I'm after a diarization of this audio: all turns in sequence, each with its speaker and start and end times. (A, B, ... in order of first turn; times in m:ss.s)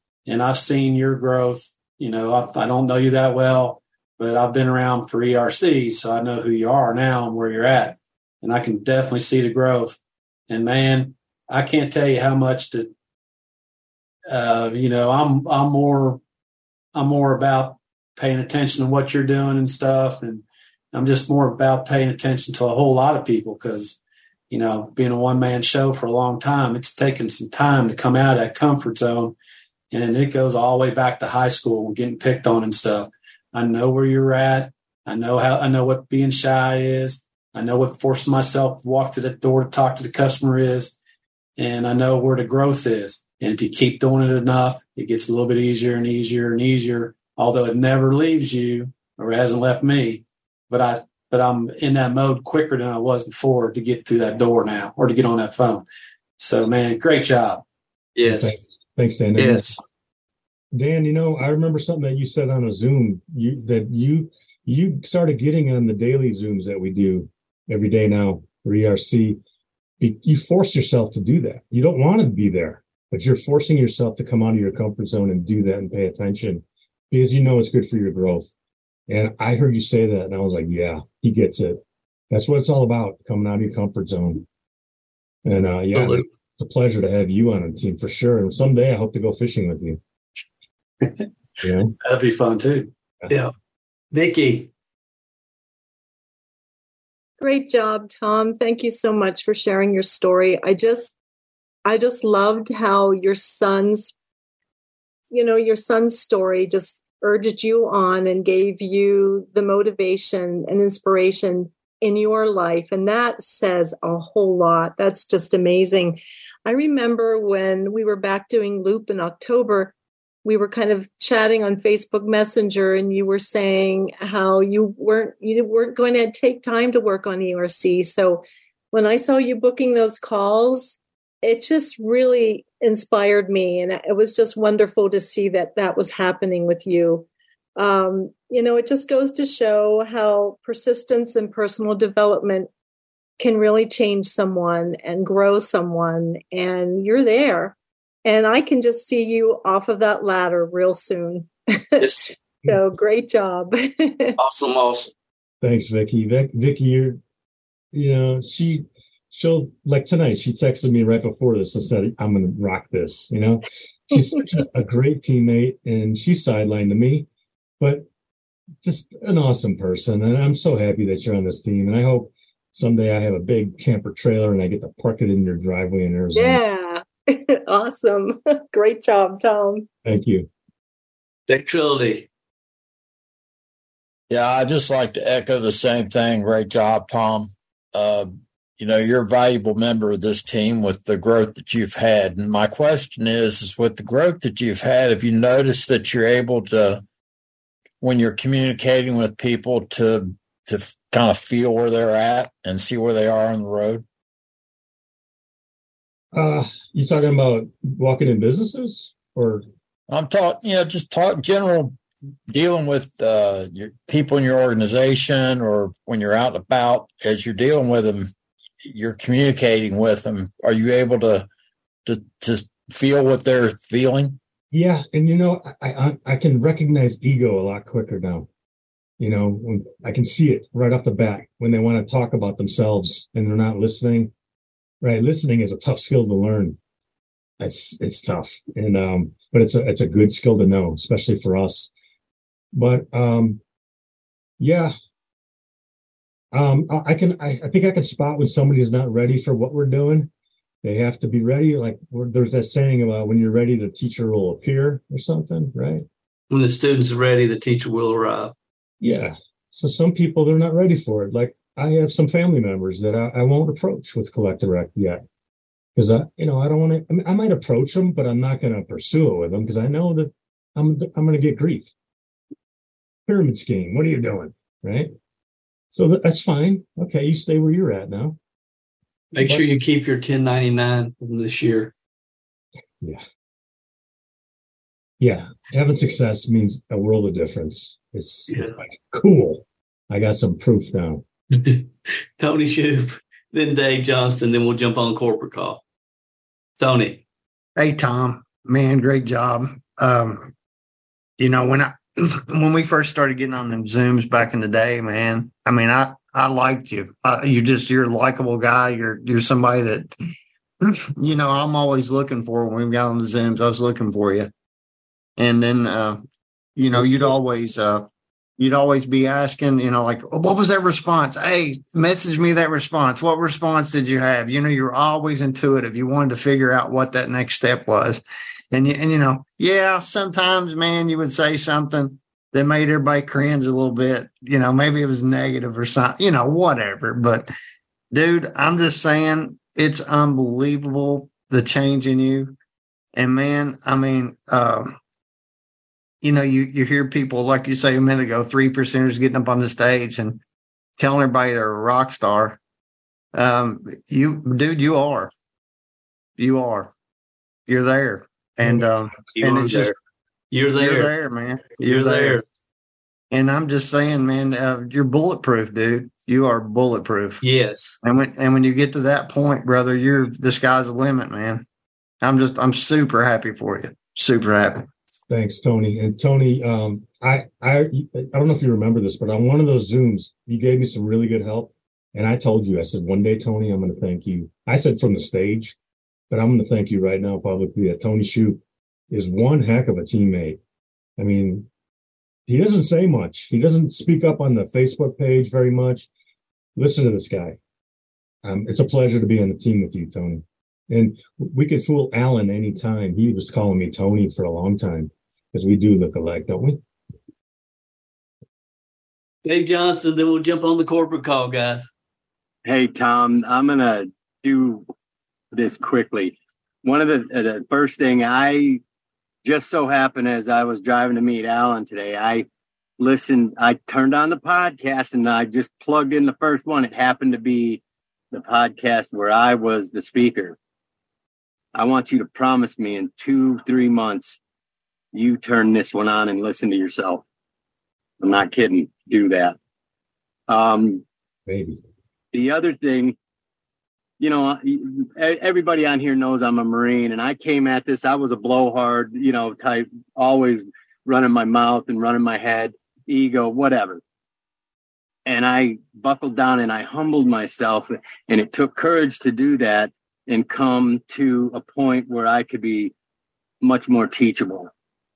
0:00.2-0:10.0 A
0:10.5-0:12.9 A
0:14.3-0:16.2 A
0:16.9-0:24.0 A
0:24.5-0:29.4 A
0:29.9-0:40.9 A
0:41.6-0:55.8 A
0:56.4-0:57.6 A
0:58.2-0:58.6 B
0:58.2-0:59.7 C
0:59.4-0:59.8 B
1:00.7-1:09.4 C
1:10.0-1:18.5 C
1:19.1-1:24.4 C
1:25.4-1:30.0 C
1:25.9-1:26.3 B
1:31.6-1:31.9 C
1:32.0-1:32.9 A
1:34.1-1:34.7 B
1:37.4-1:41.2 D
1:41.8-1:44.1 D
1:45.3-2:17.2 D
2:17.8-2:22.7 D
2:23.4-2:34.4 D
2:32.0-2:32.3 B
2:34.4-2:35.1 B
2:35.6-2:37.2 C
2:37.9-2:47.3 C
2:47.8-2:48.0 C
2:48.8-2:56.6 C
2:56.3-2:59.9 D
3:00.0-3:00.5 C
3:01.5-3:02.3 B
3:04.3-3:17.0 E
3:18.0-3:24.0 E
3:26.3-3:29.6 C
3:30.1-3:32.0 E
3:32.5-3:38.3 E
3:38.8-3:41.5 E
3:42.0-3:44.4 E
3:44.7-3:48.5 C
3:49.2-3:54.3 C
3:55.0-3:56.8 C
3:57.6-4:01.9 C
4:02.7-4:03.6 C
4:04.6-4:04.9 C
4:06.5-4:10.3 C
4:10.8-4:16.0 C
4:16.5-4:18.5 B
4:19.0-4:25.2 C
4:26.0-4:31.9 C
4:33.3-4:35.1 C
4:35.9-4:38.4 C
4:39.3-4:41.9 B
4:39.4-4:39.6 C
4:45.2-4:51.2 C
4:48.5-4:48.8 B
4:51.5-4:55.8 B
4:56.8-4:57.2 B
4:57.8-5:00.5 F
5:01.4-5:10.1 F
5:10.8-5:14.5 F
5:15.4-5:16.2 F
5:16.8-5:37.5 F
5:38.1-5:42.5 F
5:43.2-5:45.0 F
5:46.2-5:50.4 F
5:51.0-5:52.6 F
5:53.3-5:55.3 F
5:56.4-5:56.9 F
5:57.7-5:59.9 F
5:59.3-6:00.0 B
6:00.5-6:01.1 B
6:00.7-6:02.4 F
6:01.8-6:02.4 B
6:03.3-6:07.4 F
6:07.4-6:08.0 B
6:08.0-6:11.6 F
6:12.2-6:14.9 F
6:15.3-6:25.8 C
6:26.3-6:30.6 C
6:31.2-6:31.7 C
6:32.5-6:36.1 C
6:36.8-6:37.6 C
6:38.4-6:46.8 C
6:49.4-6:51.8 B
6:52.6-6:54.8 G
6:55.5-6:58.8 G
6:59.4-7:02.4 G
7:03.0-7:10.6 G
7:11.7-7:14.4 G
7:15.1-7:17.2 G
7:18.2-7:19.6 G
7:20.5-7:21.0 G
7:21.5-7:21.8 C
7:22.3-7:23.2 G
7:24.2-7:34.0 G
7:35.2-7:42.9 G
7:43.6-7:44.7 G